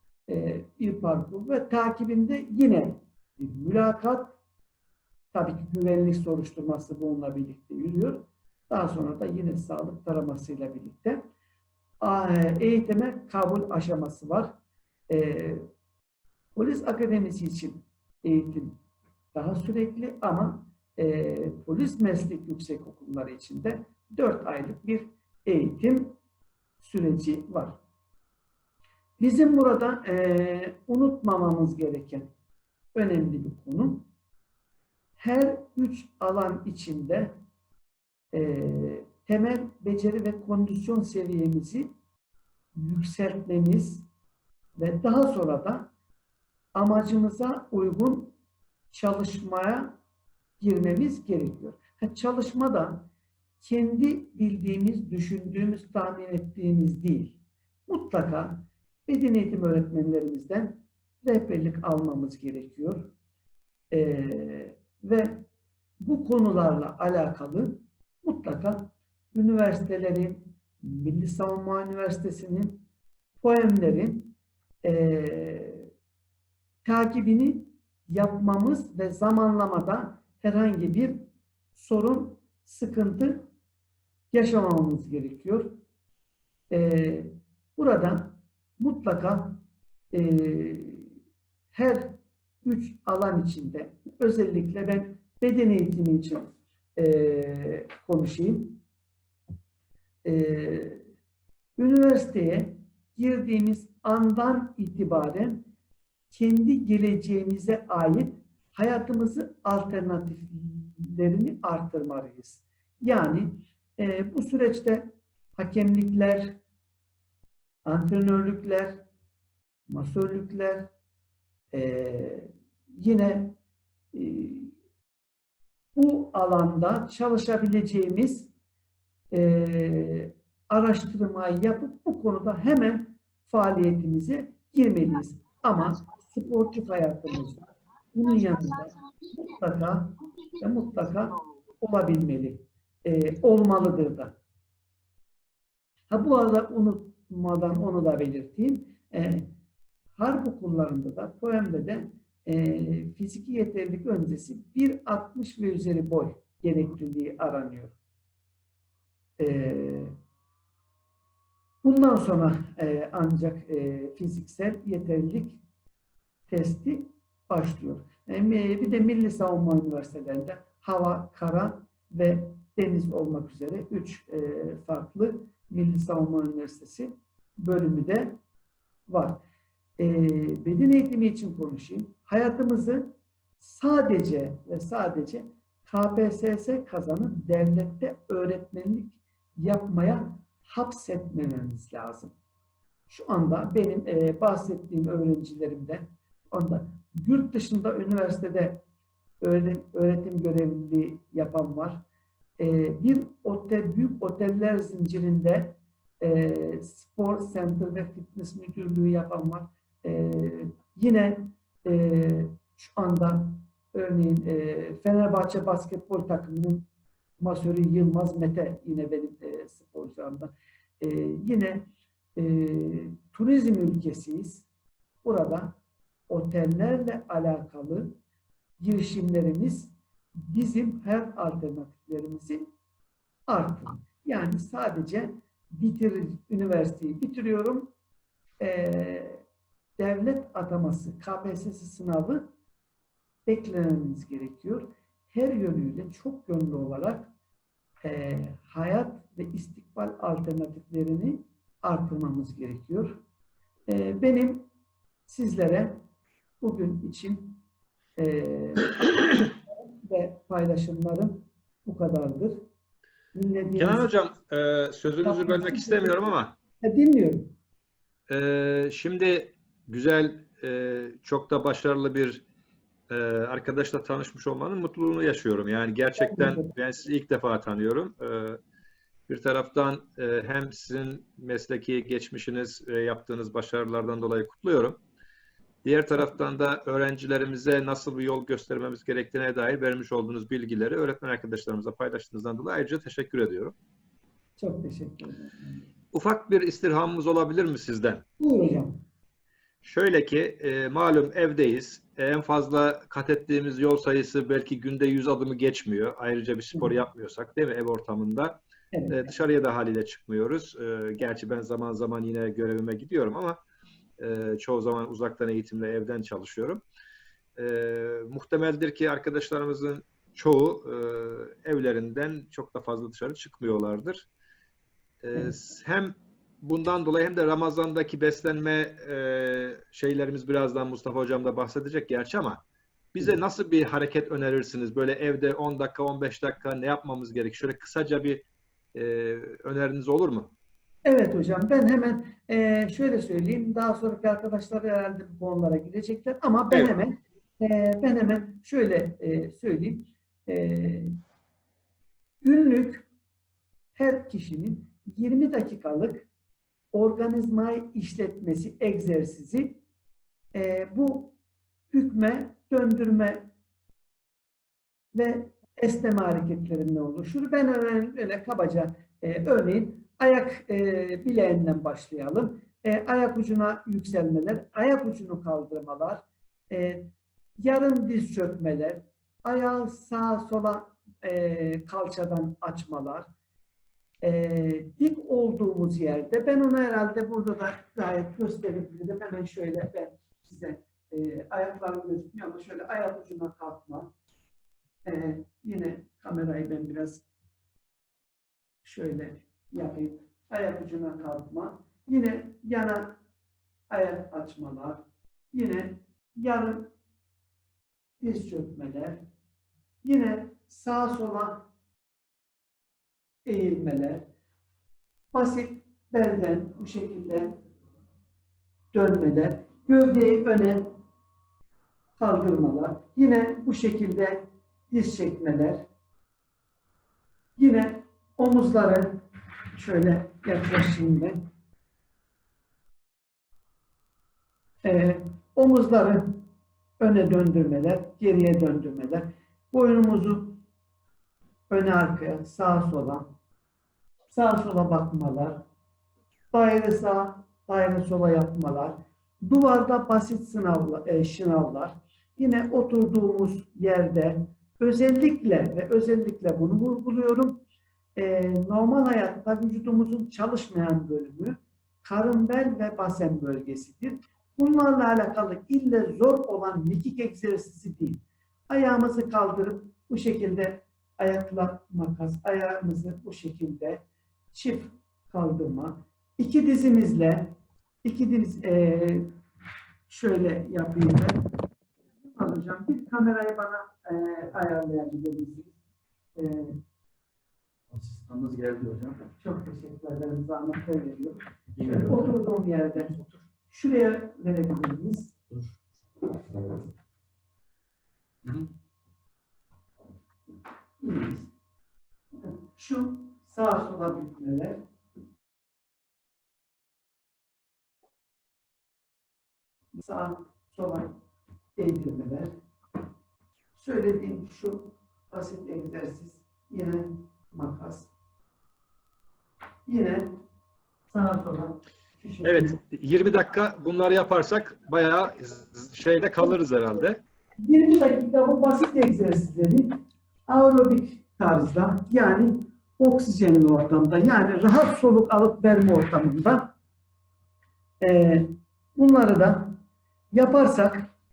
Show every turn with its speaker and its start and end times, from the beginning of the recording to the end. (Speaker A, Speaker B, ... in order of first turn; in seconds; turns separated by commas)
Speaker A: 0.3-4.4, Speaker A: 5.3-11.2, Speaker A: 12.0-14.5, Speaker A: 15.1-15.7, Speaker A: 16.5-18.8, Speaker A: 19.3-26.2, Speaker A: 26.8-27.8, Speaker A: 29.2-32.3, Speaker A: 32.9-34.1, Speaker A: 35.2-37.4, Speaker A: 38.3-41.9, Speaker A: 42.7-44.1, Speaker A: 44.8-45.9, Speaker A: 46.7-48.4, Speaker A: 48.9-50.0, Speaker A: 50.6-53.1, Speaker A: 53.6-63.1, Speaker A: 63.9-65.5, Speaker A: 66.0-72.8, Speaker A: 73.4-74.3, Speaker A: 74.8-75.9, Speaker A: 76.8-81.2, Speaker A: 81.7-83.5, Speaker A: 84.3-85.8, Speaker A: 86.7-91.1, Speaker A: 91.7-98.8, Speaker A: 100.2-101.0, Speaker A: 101.8-105.7, Speaker A: 106.3-116.6, Speaker A: 117.8-119.0, Speaker A: 119.9-120.9, Speaker A: 121.7-123.6, Speaker A: 124.1-124.7, Speaker A: 125.9-128.5, Speaker A: 129.3-144.3, Speaker A: 146.1-149.5, Speaker A: 150.2-157.9, Speaker A: 159.4-160.2, Speaker A: 161.8-165.6, Speaker A: 166.5-178.4, Speaker A: 179.1-179.4, Speaker A: 180.0-192.3, Speaker A: 193.1-198.8, Speaker A: 199.4-202.0, Speaker A: 202.6-216.8, Speaker A: 217.4-224.7, Speaker A: 225.2-225.8, Speaker A: 226.3-228.2, Speaker A: 228.8-232.7, Speaker A: 233.5-237.9, Speaker A: 238.6-239.4, Speaker A: 240.0-242.5, Speaker A: 243.4-247.3, Speaker A: 248.0-253.2, Speaker A: 253.9-254.7, Speaker A: 255.3-256.0, Speaker A: 256.6-257.6, Speaker A: 258.2-262.6, Speaker A: 263.3-264.1, Speaker B: 263.8-266.6, Speaker A: 265.2-267.5, Speaker B: 268.3-272.4, Speaker B: 273.1-278.6, Speaker A: 276.2-276.7, Speaker B: 279.3-285.0, Speaker B: 285.8-293.7, Speaker A: 294.6-295.9, Speaker B: 296.1-298.2, Speaker A: 298.4-299.0, Speaker B: 299.8-313.6, Speaker A: 308.9-309.4, Speaker B: 314.2-316.8, Speaker B: 317.6-324.3, Speaker B: 325.2-332.6, Speaker B: 333.1-340.5, Speaker A: 341.0-351.1, Speaker A: 352.4-353.1, Speaker A: 353.9-356.3, Speaker A: 356.9-359.8, Speaker A: 360.5-361.3, Speaker A: 361.9-363.5, Speaker A: 365.1-383.3, Speaker A: 384.2-394.1, Speaker A: 395.1-397.2, Speaker A: 398.8-403.2, Speaker A: 403.9-406.9, Speaker A: 408.2-409.2, Speaker A: 410.0-411.7, Speaker A: 413.4-414.3, Speaker A: 415.3-417.6, Speaker A: 418.9-421.0, Speaker A: 422.2-425.9, Speaker A: 427.6-431.4, Speaker A: 434.8-436.4, Speaker A: 437.0-440.6, Speaker A: 441.7-443.3, Speaker A: 444.3-445.6, Speaker A: 446.5-457.6, Speaker A: 458.1-479.3, Speaker A: 480.1-481.4, Speaker A: 482.2-485.8, Speaker A: 486.4-486.8, Speaker C: 487.9-489.2, Speaker A: 489.4-493.1, Speaker C: 491.8-492.3, Speaker A: 493.7-495.3, Speaker C: 495.5-495.8, Speaker A: 501.0-501.5, Speaker A: 502.4-504.8, Speaker A: 509.9-511.1, Speaker A: 511.8-512.5, Speaker A: 513.8-518.1, Speaker A: 519.9-520.3, Speaker A: 521.1-522.8, Speaker B: 522.4-527.2, Speaker A: 527.6-536.7, Speaker A: 538.0-539.8, Speaker A: 540.3-541.1